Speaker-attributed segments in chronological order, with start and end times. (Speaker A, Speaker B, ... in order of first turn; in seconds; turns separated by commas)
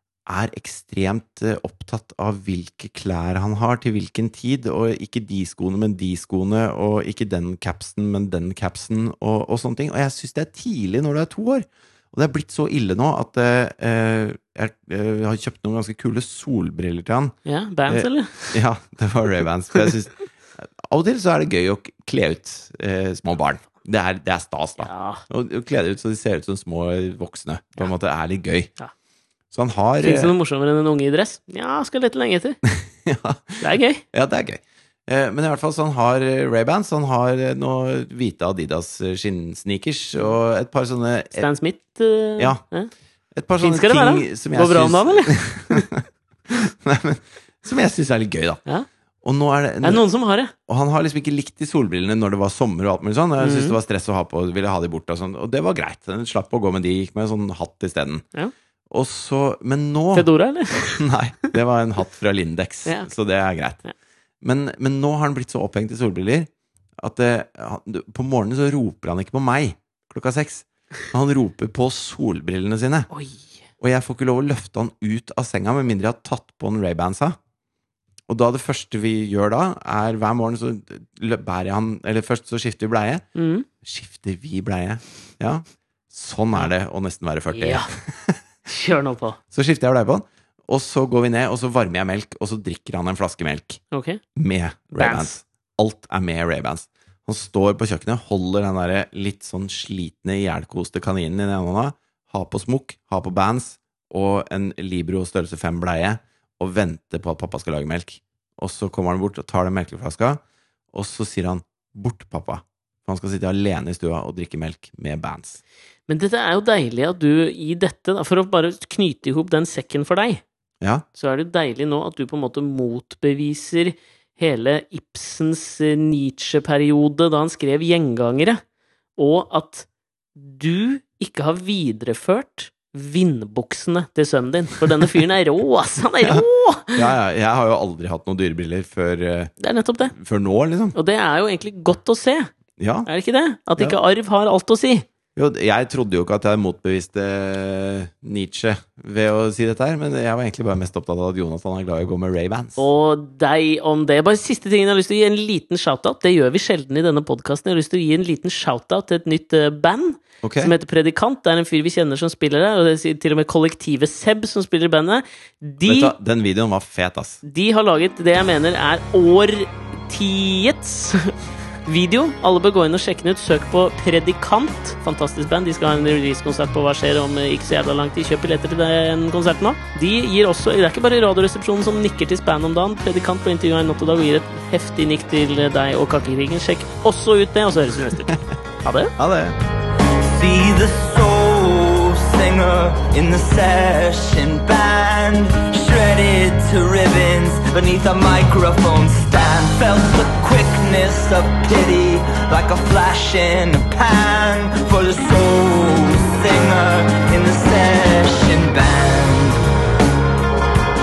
Speaker A: 0.3-17.4, Speaker B: 17.5-18.6, Speaker A: 17.9-28.7, Speaker B: 24.8-25.2, Speaker A: 29.5-30.3, Speaker B: 30.0-32.6, Speaker A: 32.6-41.5, Speaker B: 33.6-34.0, Speaker B: 41.3-42.9, Speaker A: 43.3-48.6, Speaker B: 43.6-45.9, Speaker A: 49.2-50.1, Speaker B: 49.8-50.5, Speaker A: 50.7-58.2, Speaker B: 53.4-53.8, Speaker A: 58.9-63.8, Speaker B: 60.1-61.0, Speaker B: 62.9-63.1, Speaker A: 64.4-73.1, Speaker B: 73.1-73.5, Speaker A: 73.8-77.4, Speaker A: 78.3-83.2, Speaker B: 83.3-83.7, Speaker A: 83.8-88.4, Speaker B: 87.5-87.9, Speaker B: 88.7-89.4, Speaker A: 89.5-93.8, Speaker B: 93.9-94.2, Speaker A: 94.3-110.4, Speaker B: 94.9-95.3, Speaker A: 110.9-115.6, Speaker B: 116.1-120.4, Speaker B: 121.1-128.6, Speaker B: 129.2-137.1, Speaker A: 136.2-139.5, Speaker B: 139.6-140.2, Speaker A: 140.1-141.0, Speaker B: 140.9-142.5, Speaker A: 142.8-143.1, Speaker B: 143.1-145.1, Speaker A: 145.4-152.9, Speaker B: 152.8-166.1, Speaker A: 160.4-160.7, Speaker A: 165.8-167.4, Speaker B: 167.4-171.3, Speaker B: 171.9-189.2, Speaker A: 189.2-189.6, Speaker C: 190.1-209.6